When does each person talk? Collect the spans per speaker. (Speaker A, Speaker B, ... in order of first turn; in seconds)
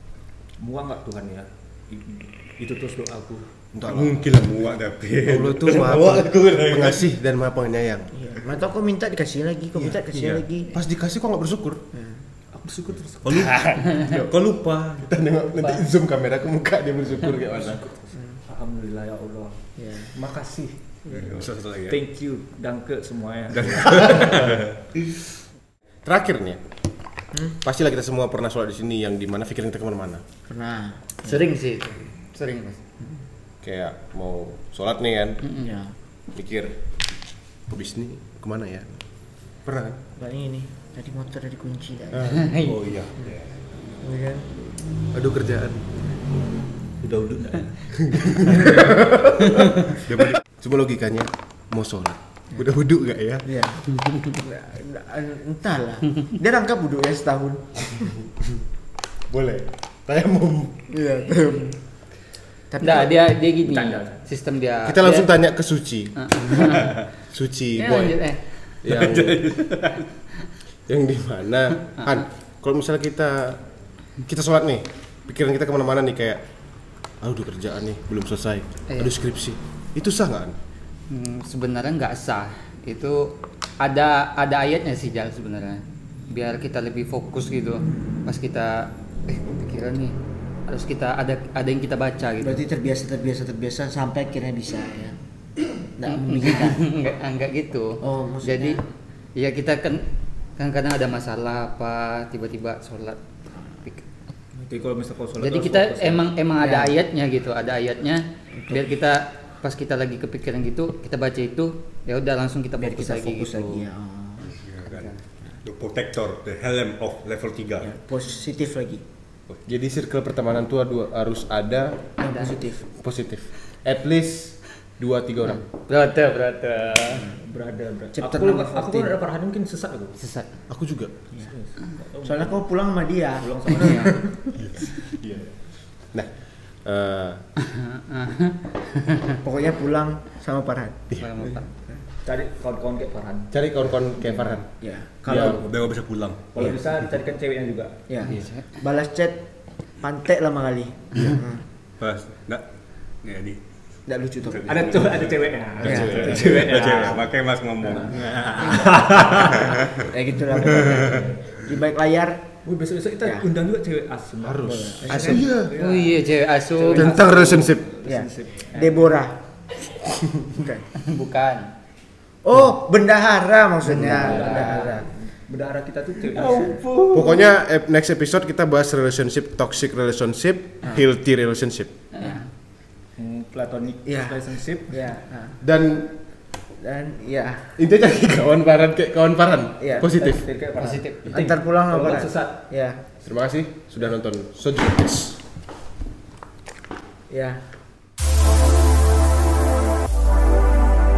Speaker A: 0.6-3.5, 12.6-13.8, 17.5-20.8, 21.9-24.6, 47.4-47.8, 48.4-49.1, 63.6-64.2, 104.5-106.2, 127.5-130.2, 131.4-132.6, 133.4-134.2, 142.2-143.5, 145.2-146.0, 146.5-147.9, 154.7-157.3, 158.7-159.8, 160.6-161.4, 162.7-169.2, 173.9-176.8, 183.2-185.0, 190.0-192.6
Speaker B: 3.7-4.3, 5.2-8.1, 10.6-11.8, 14.9-17.9, 26.1-26.6, 27.6-30.2, 33.6-35.4, 36.3-36.8, 37.7-39.0, 39.6-40.0, 45.1-45.8, 48.0-48.9, 50.5-53.5, 59.3-60.8, 64.8-66.1, 67.3-68.2, 68.8-69.4, 70.9-73.6, 74.2-76.4, 77.2-80.6, 119.7-122.0, 123.0-125.6, 130.7-131.1, 136.0-137.4, 141.1-141.5, 143.5-144.7, 145.2-145.6, 164.4-165.8, 167.0-167.8, 177.1-181.9, 185.6-186.1, 187.8-190.4, 193.2-195.4
Speaker C: 3.9-7.0, 10.1-10.4, 13.2-15.1, 21.1-22.0, 23.5-24.8, 42.6-43.6, 47.0-47.6, 50.1-50.4, 68.9-70.1, 114.5-117.9, 145.3-146.8, 152.0-152.7, 153.2-153.6, 154.4-160.1, 160.9-161.3, 176.4-177.4
Speaker D: 8.2-10.8, 11.9-12.2, 19.8-20.1, 21.1-21.4, 30.5-31.4, 35.6-36.0, 40.2-42.5, 44.0-44.5, 48.7-49.6, 53.5-58.2, 60.9-61.8, 62.7-63.1, 92.4-95.2, 95.8-96.9, 98.0-98.8, 106.6-106.9, 108.5-108.9, 112.8-114.6, 117.8-119.0, 122.2-122.9, 128.2-129.1, 132.2-134.6, 139.4-142.0, 144.8-145.2, 148.1-149.4, 150.0-151.7, 154.1-155.0, 155.8-156.5, 158.7-159.0, 160.1-162.4, 164.6-165.5, 168.1-169.4, 170.5-170.9, 172.4-175.1, 176.5-176.7, 184.1-185.6, 186.8-187.8, 189.8-190.1, 191.3-193.0, 197.3-197.6
Speaker E: 31.2-32.8, 35.4-35.7, 42.5-42.8, 62.8-65.3, 66.2-67.0, 67.8-68.4, 81.1-90.2, 90.7-92.6, 96.1-98.8, 99.4-100.0, 100.6-103.2, 105.4-113.9, 125.9-127.3, 130.2-130.5, 133.8-134.1, 137.7-139.4, 141.2-141.7, 148.4-148.6, 165.8-167.1, 171.0-171.7, 173.9-174.8, 182.2-182.4, 190.8-191.2